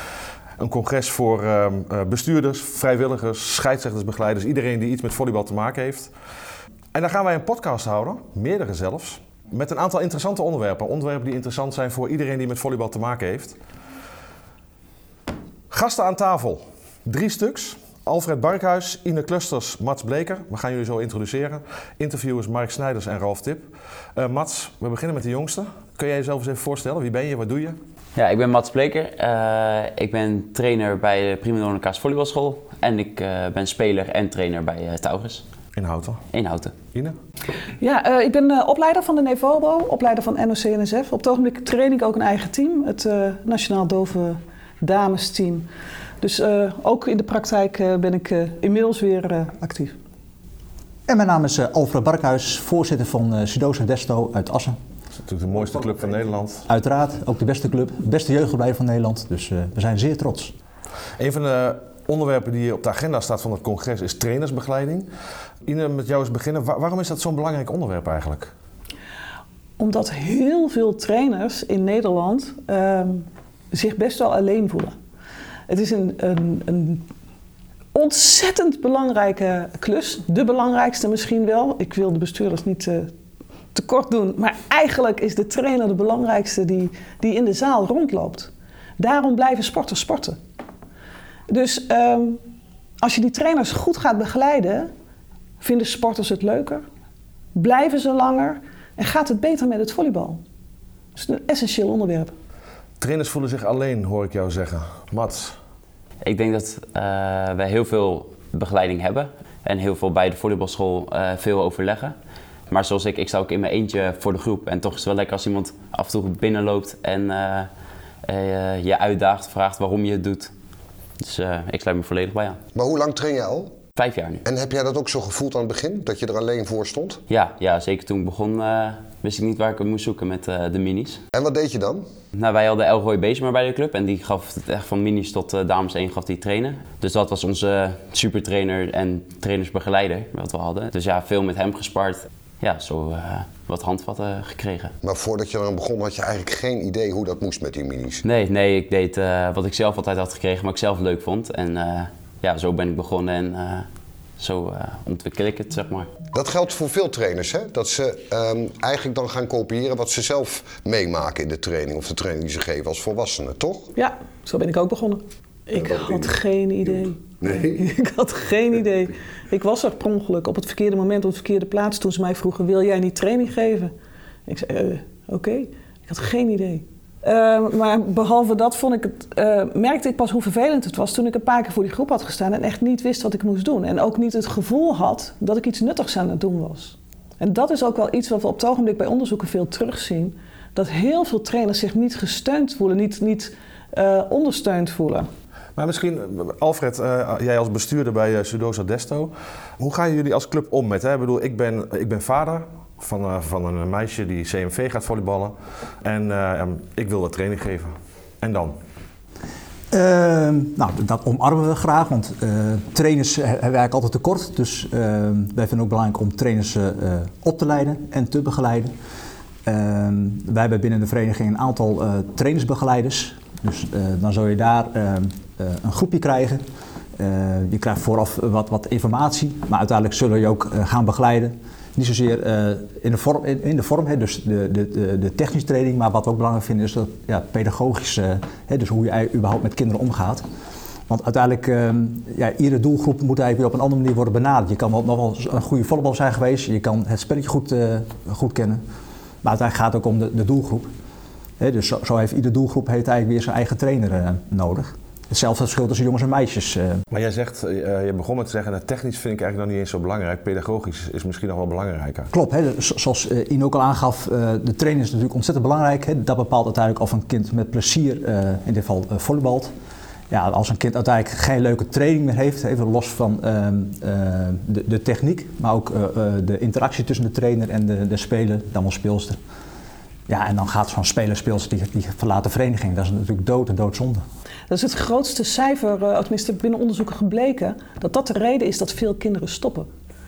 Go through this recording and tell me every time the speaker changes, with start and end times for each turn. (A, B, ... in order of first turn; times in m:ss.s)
0:00.6-0:06.1 A
0:06.9-0:13.6 A
0:15.7-0:27.8 A
0:28.2-0:35.4 B
0:35.8-0:36.2 A
0:36.3-0:36.7 B
0:37.8-0:45.7 C
0:46.2-0:50.0 C
0:51.1-0:54.8 D
0:55.2-0:56.7 A
0:56.7-1:00.5 D
1:01.2-1:05.1 A
1:05.6-1:08.5 A
1:09.8-1:14.9 C
1:15.7-1:17.0 C
1:17.9-1:23.1 C
1:23.7-1:30.4 C
1:31.5-1:32.4 C
1:33.0-1:34.9 C
1:35.6-1:36.8 C
1:37.5-1:40.4 C
1:41.2-1:42.3 C
1:43.0-1:45.6 A
1:46.2-1:52.1 B
1:52.7-1:57.7 B
1:58.2-2:00.5 B
2:01.2-2:02.6 B
2:02.7-2:03.7 E
2:04.0-2:04.4 B
2:04.4-2:07.2 E
2:07.3-2:11.2 B
2:11.3-2:12.0 E
2:12.3-2:24.9 B
2:25.0-2:28.2 E
2:28.2-2:33.9 B
2:34.4-2:36.1 B
2:36.3-2:43.9 E
2:43.9-2:53.9 C
2:47.4-2:47.7 E
2:54.5-3:15.3 C
3:15.8-3:28.8 A
3:29.9-3:38.9 D
3:39.6-3:46.6 D
3:47.2-4:00.4 D
4:01.1-4:08.8 D
4:09.4-4:10.9 D
4:11.6-4:17.0 D
4:17.1-4:22.3 A
4:22.3-4:29.7 D
4:30.3-4:39.4 D
4:40.3-4:44.2 D
4:44.7-4:49.9 C